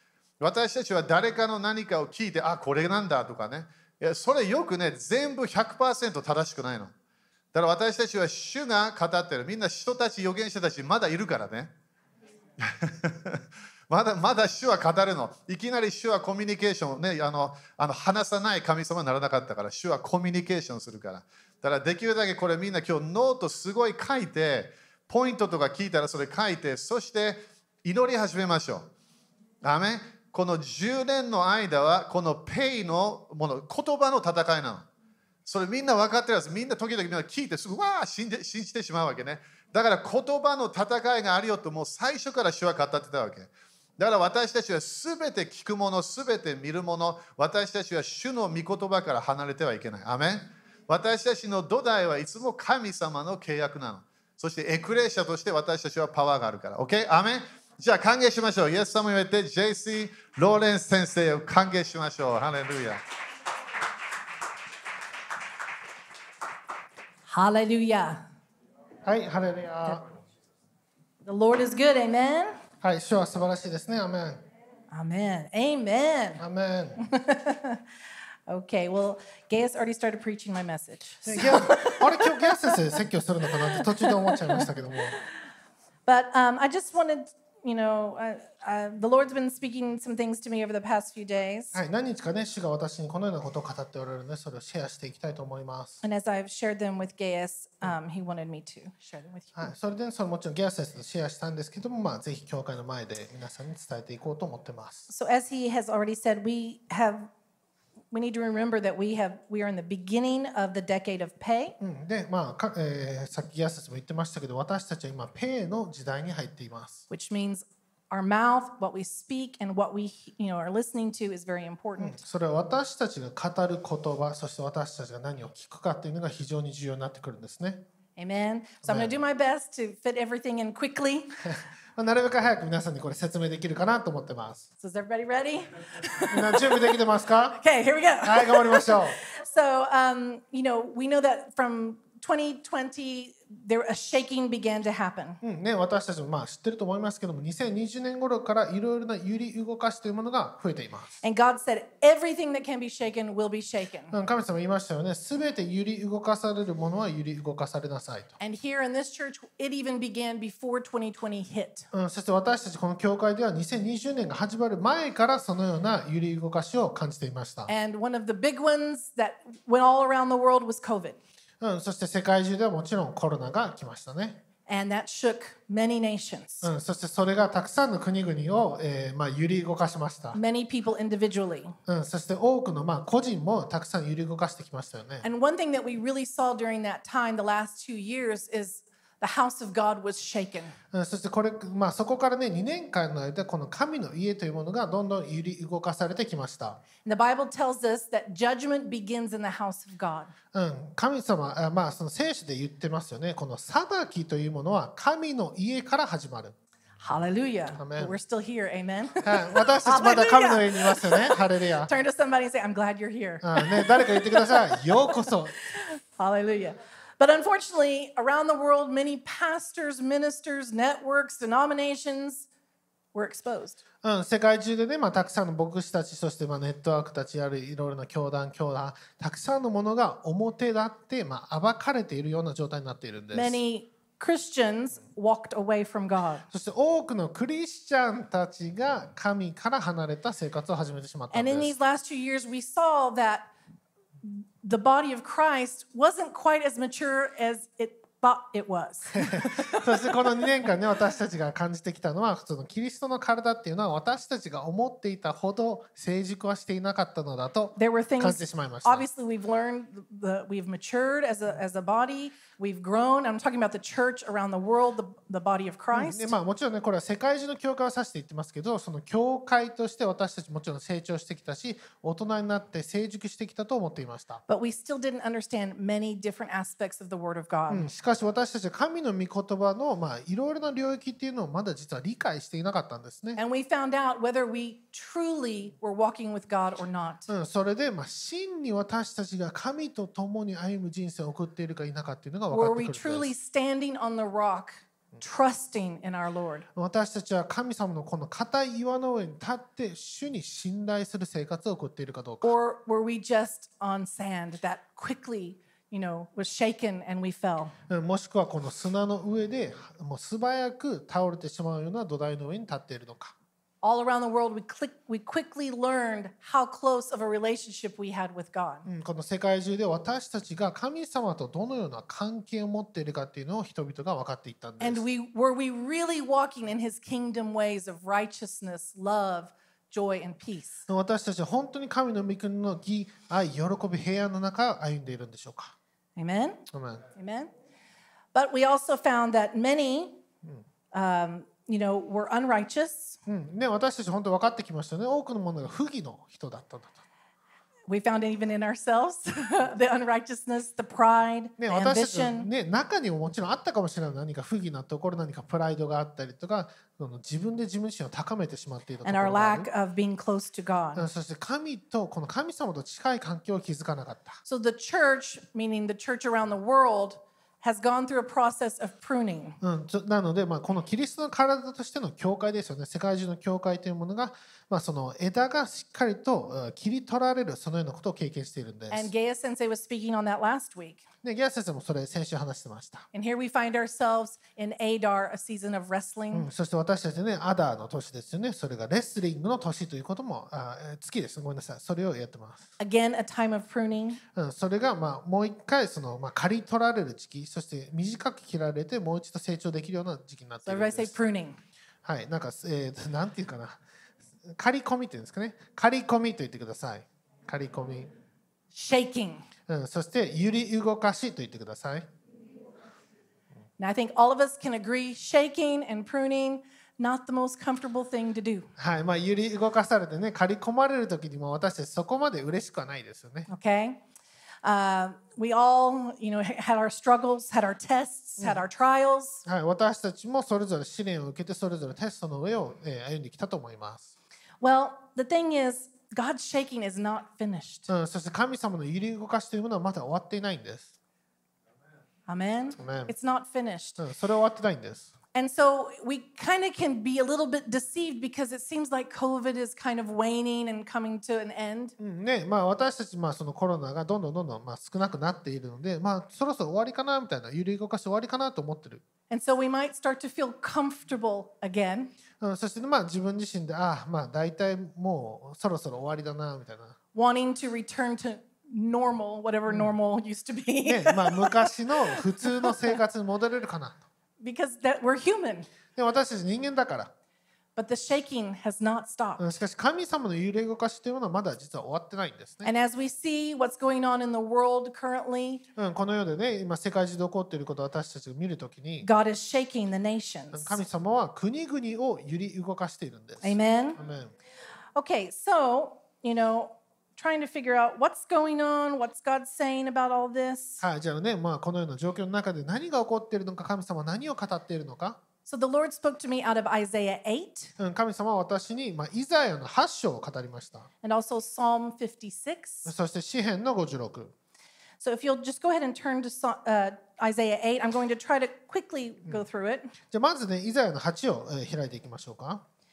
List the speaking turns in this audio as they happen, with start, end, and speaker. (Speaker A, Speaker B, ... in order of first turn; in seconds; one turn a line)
Speaker A: 0.4-6.9
Speaker A: 7.5-11.7
Speaker A: 12.6-28.9
Speaker A: 29.6-34.9
Speaker A: 35.5-63.0
Speaker B: 67.2-68.2
Speaker C: 69.0-70.0
Speaker B: 71.2-72.5
Speaker C: 72.8-74.4
Speaker B: 74.9-76.4
Speaker C: 76.4-77.0
Speaker B: 77.0-77.8
Speaker B: 78.5-83.0
Speaker C: 81.2-85.2
Speaker B: 83.7-85.2
Speaker B: 86.0-91.8
Speaker C: 91.7-96.0
Speaker B: 96.0-99.7
Speaker C: 99.5-105.1
Speaker B: 105.1-107.3
Speaker B: 108.1-111.8
Speaker C: 111.8-117.0
Speaker B: 117.1-122.2
Speaker C: 122.0-127.8
Speaker B: 128.2-131.4
Speaker C: 128.8-129.2
Speaker C: 131.4-134.6
Speaker B: 134.8-137.0
Speaker C: 136.3-137.6
Speaker B: 137.6-145.4
Speaker C: 138.2-139.2
Speaker C: 145.4-151.2
Speaker B: 151.2-154.1
Speaker C: 154.1-158.3
Speaker B: 158.4-161.9
Speaker C: 161.9-167.7
Speaker B: 167.7-171.2
Speaker C: 171.6-174.4
Speaker B: 174.7-176.7
Speaker C: 176.6-180.4
Speaker B: 180.3-181.8
Speaker C: 181.9-185.3
Speaker B: 185.2-190.8
Speaker C: 190.9-196.8
Speaker B: 197.0-200.3
Speaker C: 200.5-206.5
Speaker B: 207.0-222.5
Speaker C: 207.8-208.2
Speaker C: 209.2-211.9
Speaker C: 213.4-215.6
Speaker B: 223.1-223.8
Speaker C: 224.0-233.6
Speaker B: 233.3-236.4
Speaker C: 236.5-241.7
Speaker B: 241.3-243.5
Speaker B: 244.2-250.5
Speaker C: 249.1-259.1
Speaker B: 257.8-266.4
Speaker C: 265.9-274.4
Speaker B: 274.5-277.9
Speaker C: 277.7-283.4
Speaker B: 283.4-287.3
Speaker C: 287.3-293.3
Speaker B: 292.5-296.7
Speaker C: 296.7-302.5
Speaker B: 302.4-307.7
Speaker C: 307.9-313.3
Speaker B: 313.8-318.9
Speaker C: 318.8-325.0
Speaker B: 324.8-330.8
Speaker C: 330.9-335.7
Speaker B: 336.1-336.6
Speaker C: 336.7-337.0
Speaker B: 337.2-337.5
Speaker B: 338.3-340.2
Speaker B: 340.9-343.2
Speaker C: 343.2-347.0
Speaker B: 347.9-352.5
Speaker C: 351.6-359.7
Speaker B: 359.0-361.1
Speaker C: 360.9-364.4
Speaker B: 364.4-369.6
Speaker C: 369.6-379.1
Speaker B: 378.9-381.1
Speaker C: 381.2-383.1
Speaker B: 383.1-386.5
Speaker C: 386.3-392.7
Speaker B: 392.8-394.2
Speaker C: 394.3-401.1
Speaker B: 400.6-401.6
Speaker C: 402.0-403.8
Speaker C: 404.4-408.1
Speaker B: 408.7-409.4
Speaker C: 409.7-412.1
Speaker B: 413.8-418.7
Speaker C: 418.8-423.5
Speaker B: 423.5-424.0
Speaker B: 424.6-429.4
Speaker C: 429.4-434.1
Speaker B: 434.6-437.9
Speaker C: 437.9-440.9
Speaker B: 442.3-444.0
Speaker C: 442.8-443.1
Speaker C: 444.0-445.1
Speaker B: 445.3-451.9
Speaker C: 452.0-459.0
Speaker B: 459.3-462.1
Speaker C: 462.4-466.9
Speaker B: 467.1-473.0
Speaker C: 469.7-469.9
Speaker C: 470.9-474.0
Speaker B: 474.4-475.7
Speaker C: 475.9-477.1
Speaker B: 477.8-479.6
Speaker C: 479.4-482.7
Speaker B: 482.6-485.6
Speaker C: 485.8-489.1
Speaker B: 489.0-490.8
Speaker C: 490.5-494.3
Speaker B: 493.4-494.0
Speaker B: 494.9-500.8
Speaker C: 500.8-505.2
Speaker B: 505.4-507.7
Speaker C: 507.8-510.9
Speaker B: 511.0-512.9
Speaker C: 512.9-514.3
Speaker B: 515.0-519.9
Speaker C: 520.1-522.6